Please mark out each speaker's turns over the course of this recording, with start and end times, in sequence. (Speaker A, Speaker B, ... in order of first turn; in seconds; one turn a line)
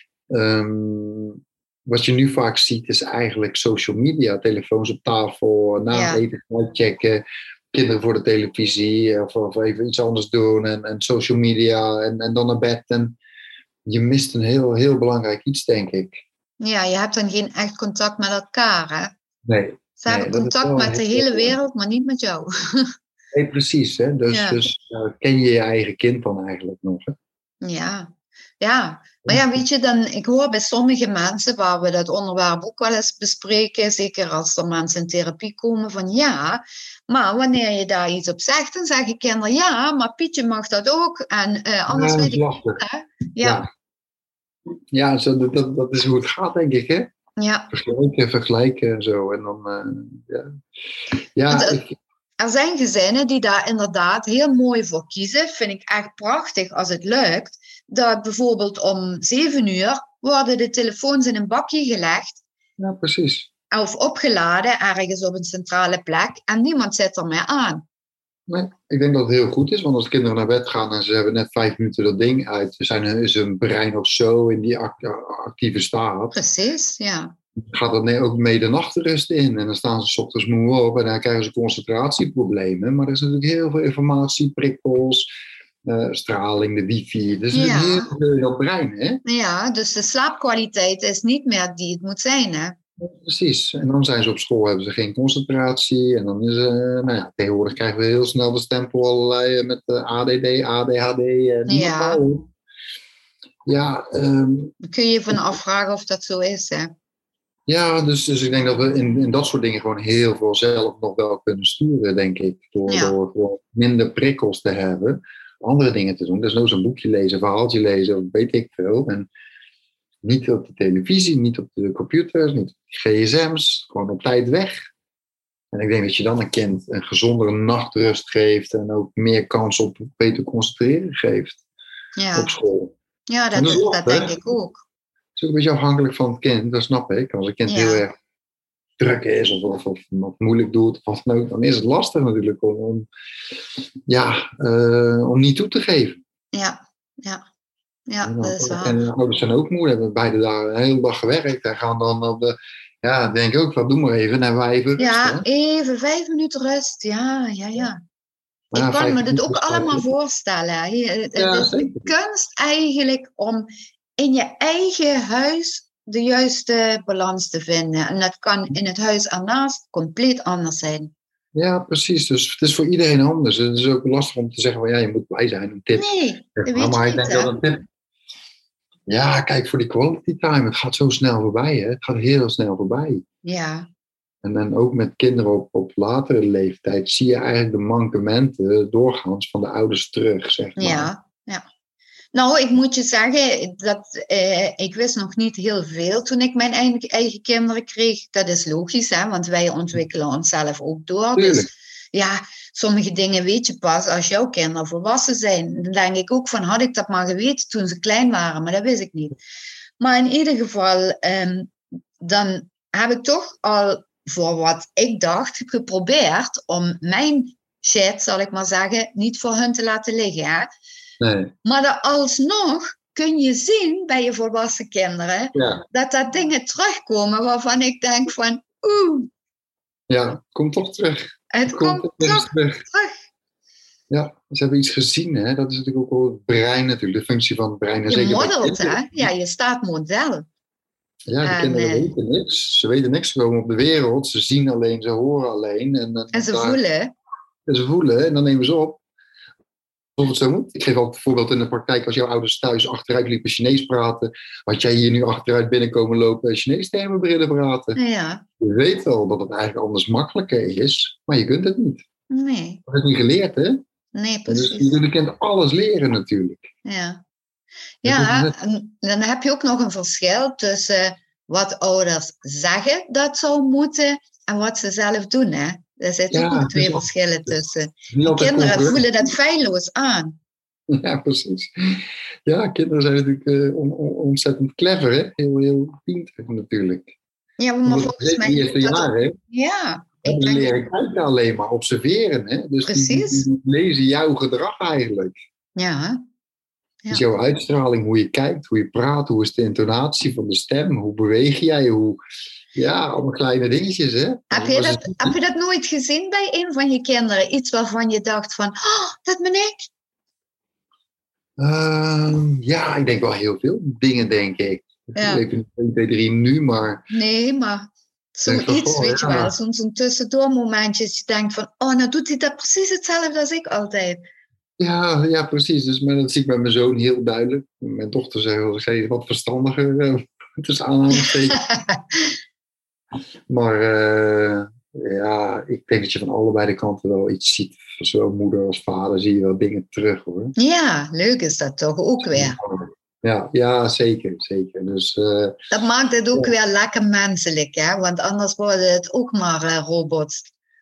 Speaker A: 0.3-13.2
Speaker B: 5.9-6.2
Speaker A: 13.9-16.1
Speaker B: 16.6-19.1
Speaker A: 19.4-21.5
Speaker B: 20.0-22.9
Speaker A: 23.3-27.1
Speaker B: 24.3-24.6
Speaker B: 27.6-43.6
Speaker A: 29.2-29.5
Speaker A: 41.9-42.8
Speaker A: 44.9-47.1
Speaker B: 47.4-47.7
Speaker A: 47.7-50.6
Speaker A: 51.4-51.9
Speaker B: 51.5-51.8
Speaker B: 52.4-62.4
Speaker A: 62.8-63.5
Speaker B: 63.7-67.8
Speaker A: 68.5-76.4
Speaker B: 76.3-77.3
Speaker A: 77.6-85.3
Speaker A: 85.8-89.2
Speaker B: 87.5-88.1
Speaker B: 89.2-92.8
Speaker A: 93.0-102.5
Speaker B: 101.7-102.2
Speaker A: 103.7-104.7
Speaker B: 104.8-106.9
Speaker A: 105.3-105.5
Speaker A: 107.7-119.3
Speaker B: 112.9-113.1
Speaker A: 120.2-124.7
Speaker A: 125.7-131.6
Speaker B: 132.2-132.5
Speaker A: 132.3-132.9
Speaker B: 133.3-134.8
Speaker A: 133.5-134.4
Speaker A: 135.4-138.1
Speaker B: 137.7-138.0
Speaker A: 139.0-143.1
Speaker A: 144.1-146.2
Speaker B: 146.5-147.4
Speaker B: 148.1-149.0
Speaker A: 148.2-155.4
Speaker B: 155.0-158.0
Speaker A: 158.7-160.1
Speaker B: 158.7-171.1
Speaker A: 161.4-162.1
Speaker A: 171.6-177.8
Speaker B: 175.9-177.5
Speaker A: 179.1-183.2
Speaker B: 183.4-183.9
Speaker A: 184.4-191.1
Speaker B: 190.8-191.6
Speaker B: 192.3-209.4
Speaker A: 201.4-201.7
Speaker B: 210.0-220.7
Speaker A: 221.2-221.5
Speaker B: 221.6-229.3
Speaker A: 225.6-225.8
Speaker A: 230.1-232.8
Speaker B: 231.5-233.2
Speaker A: 234.1-239.3
Speaker B: 238.1-240.4
Speaker A: 241.3-246.8
Speaker B: 241.4-242.1
Speaker B: 246.3-247.1
Speaker A: 247.7-249.0
Speaker A: 250.2-258.0
Speaker B: 257.9-258.4
Speaker A: 258.6-262.1
Speaker B: 262.3-262.8
Speaker A: 262.9-263.8
Speaker B: 264.1-264.9
Speaker A: 264.5-266.6
Speaker B: 266.8-267.2
Speaker B: 268.0-280.4
Speaker A: 268.1-268.6
Speaker A: 276.3-277.6
Speaker A: 278.1-279.1
Speaker A: 280.9-287.1
Speaker B: 287.6-290.7
Speaker A: 287.9-289.4
Speaker A: 290.2-295.3
Speaker B: 292.8-293.5
Speaker B: 295.8-296.2
Speaker A: 297.1-302.2
Speaker A: 302.7-305.3
Speaker B: 304.5-309.9
Speaker A: 311.6-317.0
Speaker B: 315.1-315.4
Speaker B: 317.1-324.2
Speaker A: 318.5-319.5
Speaker A: 324.8-331.6
Speaker B: 331.2-332.3
Speaker A: 333.5-340.6
Speaker B: 340.6-342.6
Speaker A: 342.3-345.6
Speaker B: 345.7-350.5